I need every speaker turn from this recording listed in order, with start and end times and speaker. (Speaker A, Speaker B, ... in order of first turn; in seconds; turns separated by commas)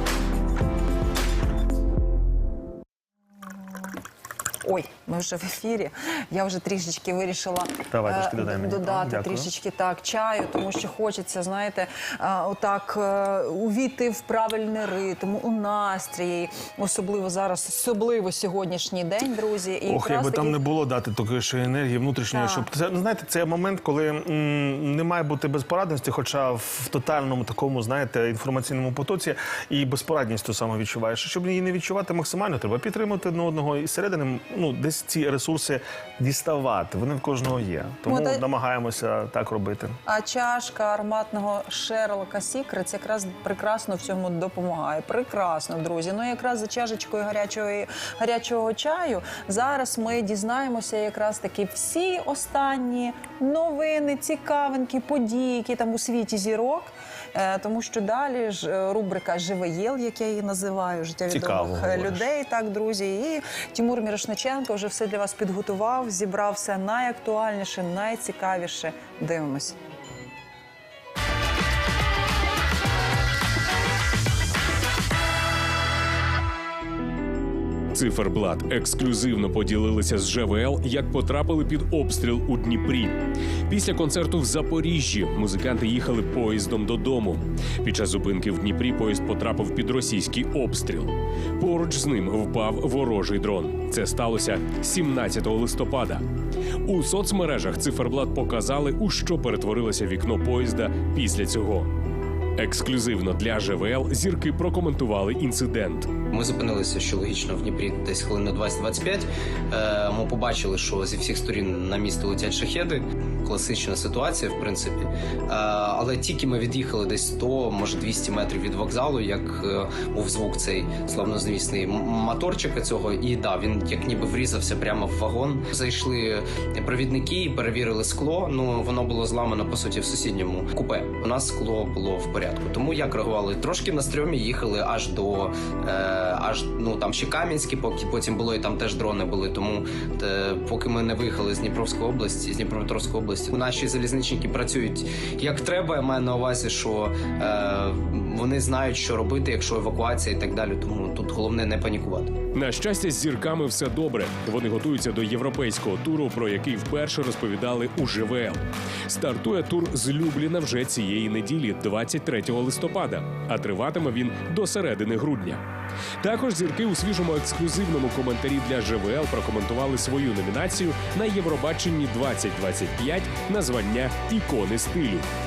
Speaker A: 4.6-20.6, Speaker B: 7.9-9.5, Speaker B: 19.9-40.0, Speaker A: 22.3-22.6, Speaker A: 38.1-38.4, Speaker A: 40.1-69.8, Speaker B: 61.3-62.3, Speaker C: 77.9-83.1, Speaker C: 83.7-96.2, Speaker C: 96.8-101.9, Speaker C: 102.6-106.1, Speaker D: 106.3-152.3, Speaker C: 152.5-165.6, Speaker C: 166.2-175.2